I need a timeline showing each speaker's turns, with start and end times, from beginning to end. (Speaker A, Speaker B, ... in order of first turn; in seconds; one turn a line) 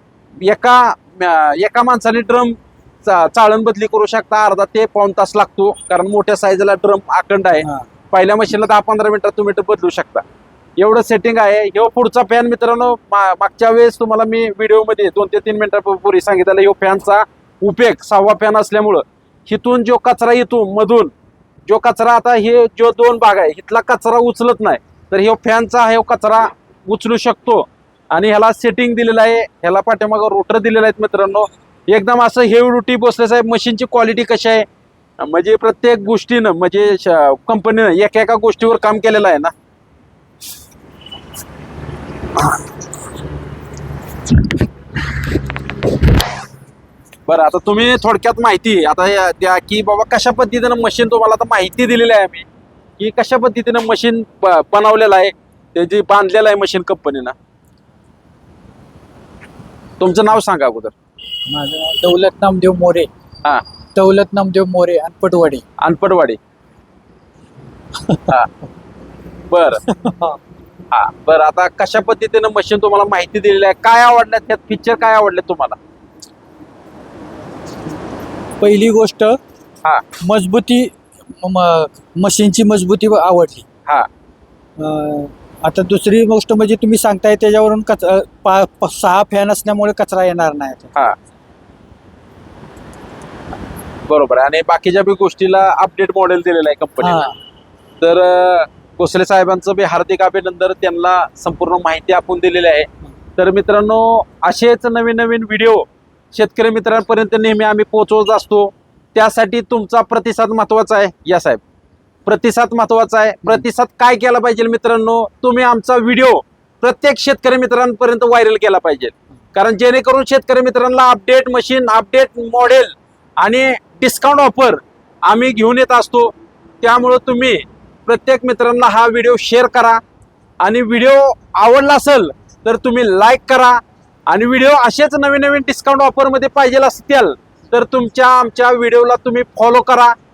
Speaker A: 0.4-10.2
Speaker A: 10.8-21.1
Speaker A: 21.7-34.7
Speaker A: 35.2-39.5
Speaker A: 47.3-52.5
Speaker A: 53.0-57.4
Speaker A: 60.0-60.9
Speaker B: 61.5-63.1
Speaker B: 64.0-65.6
Speaker A: 65.8-66.4
Speaker A: 69.5-69.8
Speaker B: 69.9-70.4
Speaker A: 70.9-75.8
Speaker B: 78.6-79.4
Speaker B: 80.2-83.7
Speaker B: 84.8-90.9
Speaker A: 94.1-97.3
Speaker B: 97.0-97.3
Speaker A: 98.0-111.6
Speaker A: 112.3-130.0
Speaker A: 130.6-140.2